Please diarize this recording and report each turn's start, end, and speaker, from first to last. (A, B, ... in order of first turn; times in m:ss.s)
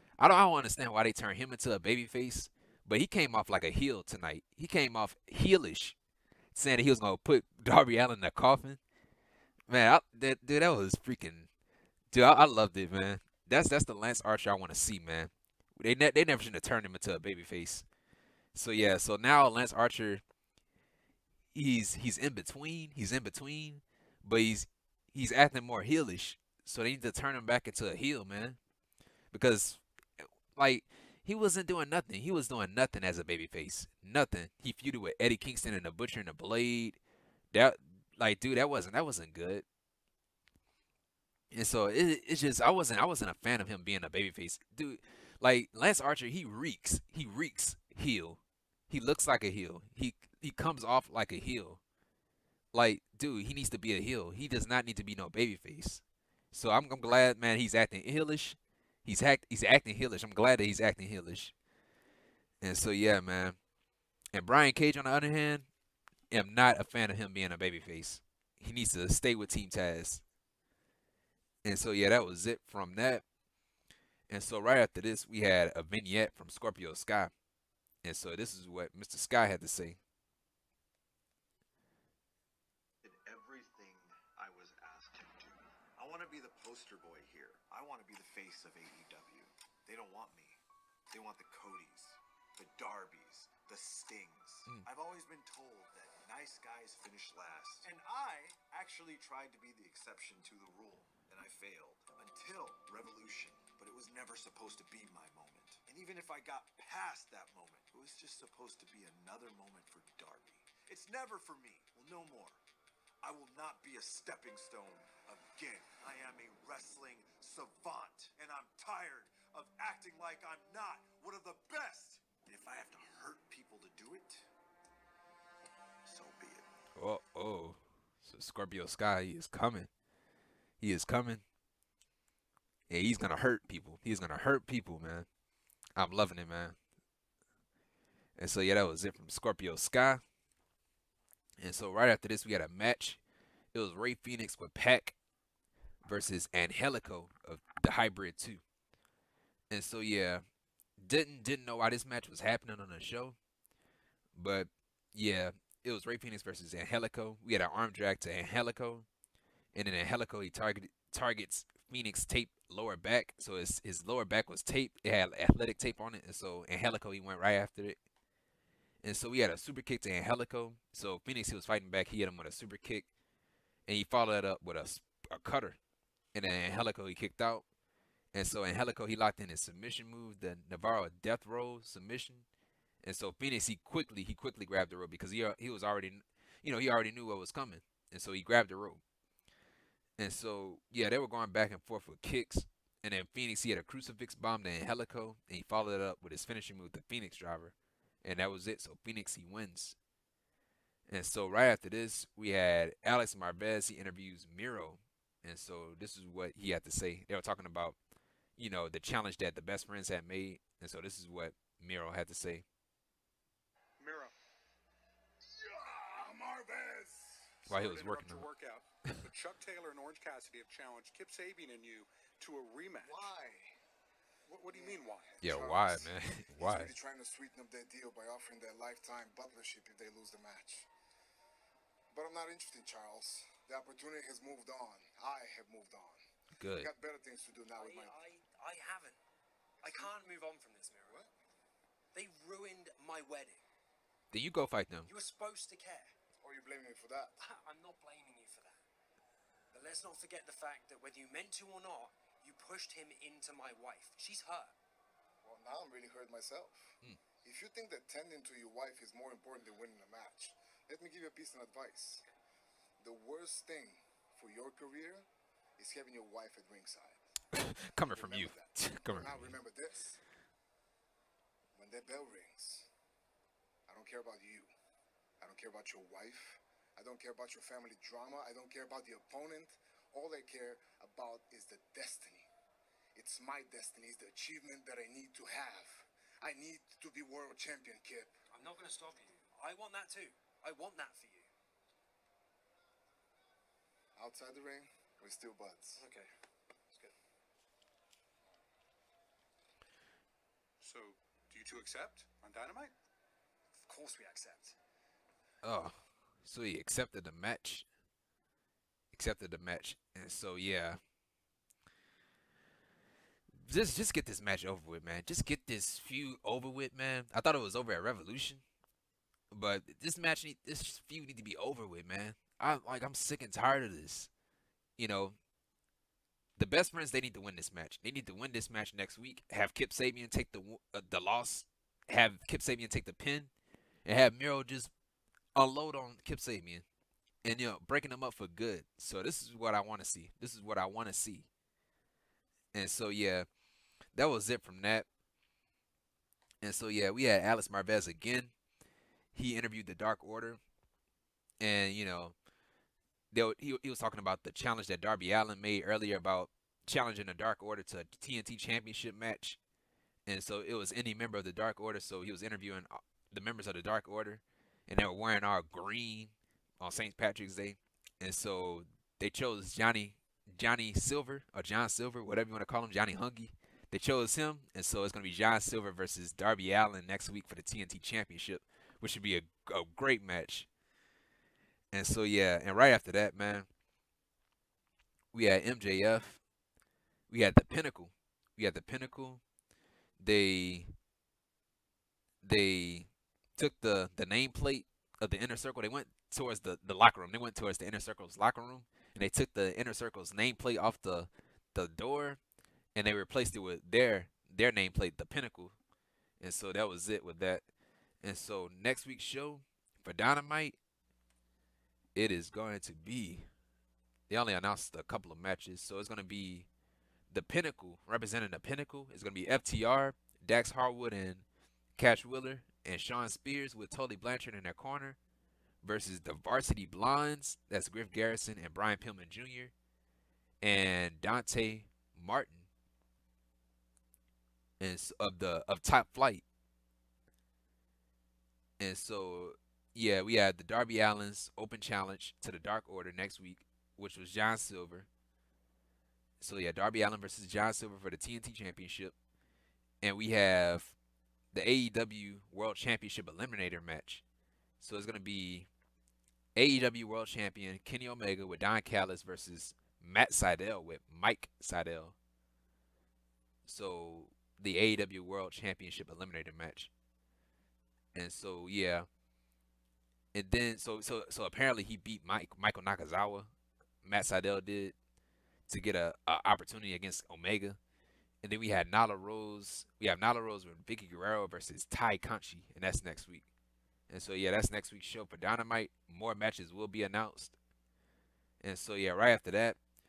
0:00.2-0:06.0 A
0:06.5-0:08.8 A
0:09.7-0:11.5 A
0:12.1-0:17.8 A
0:18.5-0:20.2 A
0:21.5-0:28.6 A
0:29.3-0:37.0 A
0:37.5-0:39.6 A
0:41.5-0:51.8 A
0:52.7-1:01.5 A
1:02.6-1:03.6 A
1:04.3-1:05.7 A
1:06.3-1:10.2 A
1:11.6-1:13.2 A
1:14.3-1:17.3 A
1:18.0-1:20.0 A
1:23.0-1:52.6 B
1:53.2-2:04.5 B
2:06.0-2:06.7 B
2:07.0-2:09.9 A
2:10.8-2:11.4 A
2:12.9-2:15.3 A
2:16.0-2:16.8 A
2:18.4-2:20.2 A
2:21.6-2:23.2 A
2:23.7-2:25.2 A
2:26.0-2:28.6 A
2:29.7-2:30.4 A
2:31.0-2:33.4 A
2:34.3-2:39.1 A
2:39.7-2:48.0 A
2:49.0-2:53.1 A
2:53.8-2:55.8 A
2:56.3-2:57.6 A
2:58.3-3:02.4 A
3:03.0-3:09.0 A
3:10.2-3:20.0 A
3:21.1-3:28.0 A
3:28.6-3:32.6 A
3:34.0-3:34.3 C
3:35.5-3:37.6 D
3:37.7-3:38.5 A
3:37.7-3:43.3 C
3:43.0-3:43.8 D
3:44.4-3:45.3 C
3:44.6-3:50.9 D
3:45.4-3:46.9 A
3:52.1-3:56.2 D
3:56.6-3:56.9 A
3:56.8-3:58.2 D
3:57.7-3:59.2 E
3:59.8-4:00.2 D
3:59.8-4:01.2 E
4:02.1-4:03.6 E
4:04.3-4:05.1 A
4:05.0-4:06.1 E
4:06.4-4:07.3 D
4:07.4-4:08.8 E
4:09.7-4:14.7 E
4:15.4-4:22.2 D
4:23.0-4:25.2 D
4:25.8-4:27.2 D
4:27.5-4:29.5 A
4:28.1-4:30.2 D
4:31.7-4:32.9 D
4:33.9-4:34.7 D
4:35.4-4:42.5 D
4:43.1-4:48.3 D
4:48.5-4:51.5 E
4:54.2-4:56.0 D
4:56.0-4:56.3 E
5:00.8-5:02.9 C
5:03.7-5:04.8 E
5:05.6-5:07.8 A
5:09.1-5:11.0 A
5:13.6-5:18.6 A
5:19.5-5:24.3 A
5:25.0-5:25.4 A
5:26.6-5:33.5 A
5:34.0-5:34.9 A
5:35.5-5:36.8 A
5:37.4-5:41.5 A
5:42.7-5:43.5 A
5:44.1-5:45.1 A
5:46.6-5:48.5 A
5:49.3-5:50.6 A
5:51.6-5:52.3 A
5:53.3-5:59.6 A
6:00.2-6:20.7 A
6:21.9-6:23.7 A
6:25.3-6:26.4 A
6:27.3-6:29.4 A
6:30.2-6:30.9 A
6:32.4-6:42.4 A
6:42.9-6:45.7 A
6:46.4-6:47.6 A
6:48.2-6:50.8 A
6:52.1-6:53.5 A
6:54.3-6:56.7 A
6:57.3-7:01.4 A
7:02.0-7:05.2 A
7:05.8-7:09.7 A
7:10.6-7:12.7 A
7:14.8-7:16.4 A
7:18.8-7:25.1 A
7:26.4-7:29.1 A
7:30.0-7:30.9 A
7:31.5-7:34.2 A
7:34.8-7:35.7 A
7:36.5-7:42.1 A
7:43.6-7:46.9 A
7:48.1-7:49.1 A
7:50.3-7:53.5 A
7:54.0-7:54.9 A
7:55.7-7:57.8 A
7:58.4-8:03.4 A
8:04.1-8:07.6 A
8:08.6-8:09.8 A